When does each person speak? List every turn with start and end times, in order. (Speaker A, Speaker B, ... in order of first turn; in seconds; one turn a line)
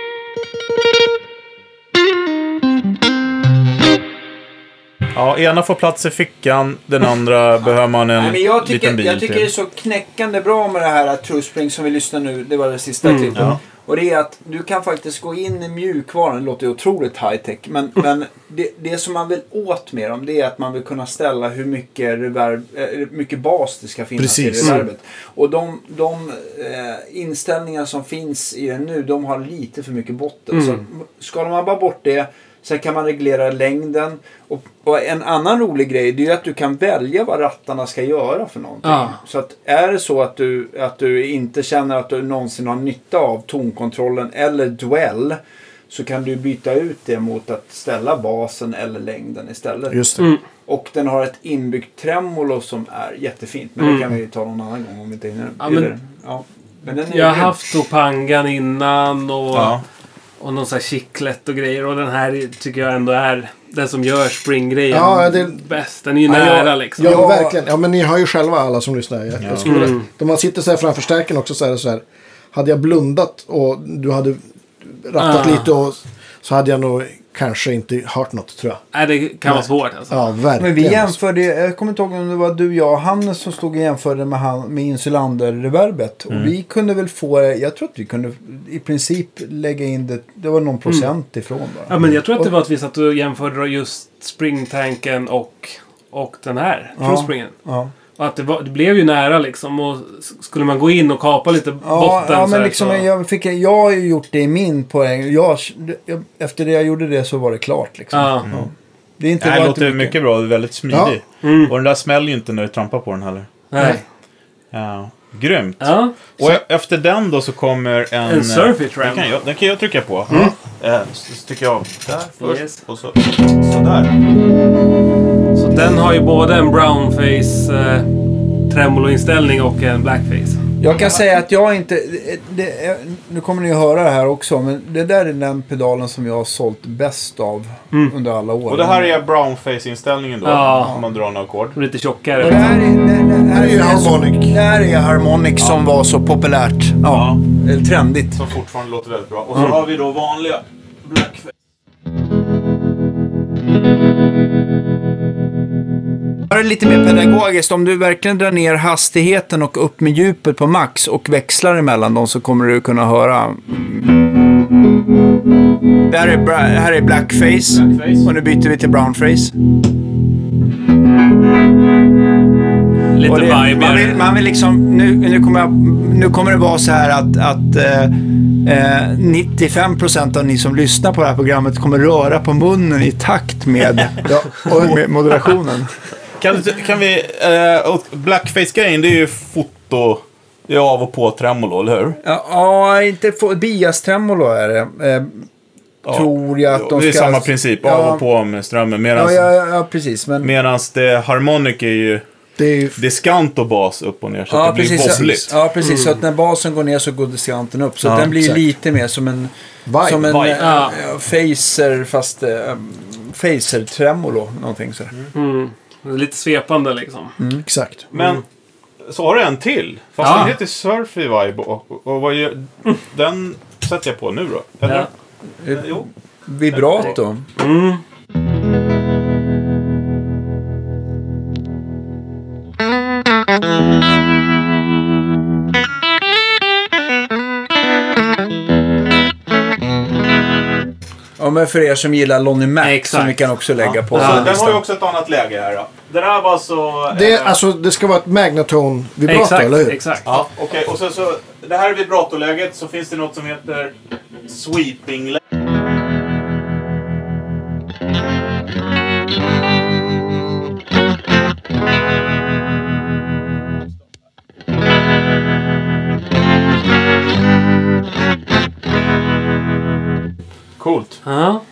Speaker A: 5.1-9.5
Speaker B: 8.1-45.4
Speaker C: 13.0-13.4
Speaker D: 24.2-24.8
Speaker C: 30.5-30.8
Speaker C: 38.8-39.2
Speaker B: 45.9-57.5
Speaker D: 49.9-50.2
Speaker C: 53.8-54.1
Speaker C: 55.6-55.9
Speaker C: 57.1-59.8
Speaker A: 59.5-59.8
Speaker C: 60.4-67.2
Speaker D: 64.9-65.6
Speaker D: 66.3-78.8
Speaker B: 66.4-67.6
Speaker A: 69.4-69.7
Speaker C: 69.6-70.0
Speaker C: 75.2-75.7
Speaker C: 78.9-80.2
Speaker D: 79.5-81.2
Speaker B: 80.6-91.9
Speaker C: 91.9-97.5
Speaker B: 97.0-97.9
Speaker C: 98.2-103.0
Speaker B: 101.8-110.2
Speaker C: 108.1-108.5
Speaker A: 109.4-113.5
Speaker D: 110.9-111.2
Speaker C: 111.4-111.7
Speaker C: 113.7-114.0
Speaker A: 114.7-124.1
Speaker C: 115.8-116.1
Speaker C: 118.2-119.3
Speaker D: 120.3-120.5
Speaker C: 122.4-122.8
Speaker C: 125.5-130.6
Speaker B: 130.8-139.1
Speaker A: 138.7-141.8
Speaker C: 140.4-141.0
Speaker C: 141.7-142.8
Speaker B: 142.3-148.4
Speaker D: 143.5-144.6
Speaker A: 147.1-147.4
Speaker A: 148.3-151.5
Speaker C: 149.5-149.8
Speaker B: 156.5-164.1
Speaker B: 166.1-169.5
Speaker A: 167.7-168.3
Speaker C: 173.2-174.2
Speaker B: 173.2-185.9
Speaker D: 184.2-185.0
Speaker A: 186.4-192.2
Speaker B: 192.2-195.5
Speaker B: 196.0-198.2
Speaker A: 196.1-199.5
Speaker B: 199.1-200.5
Speaker A: 200.4-202.2
Speaker D: 202.6-203.0
Speaker A: 203.0-205.5
Speaker B: 204.5-215.1
Speaker D: 204.9-205.5
Speaker C: 205.8-206.2
Speaker A: 208.0-208.3
Speaker D: 209.8-210.4
Speaker A: 210.2-210.8
Speaker C: 210.6-210.9
Speaker C: 215.3-217.3
Speaker B: 217.4-217.7
Speaker D: 217.7-218.1
Speaker C: 218.1-218.4
Speaker A: 218.1-218.4
Speaker A: 219.0-225.1
Speaker C: 220.2-220.6
Speaker B: 225.6-227.4
Speaker A: 225.7-226.0
Speaker A: 226.7-227.2
Speaker C: 227.6-228.0
Speaker B: 241.4-244.8
Speaker C: 242.8-243.4
Speaker A: 243.8-247.6
Speaker C: 244.1-244.5
Speaker D: 247.1-250.0
Speaker C: 249.2-250.3
Speaker A: 250.2-253.9
Speaker A: 254.5-255.4
Speaker A: 270.8-271.2
Speaker C: 271.2-271.6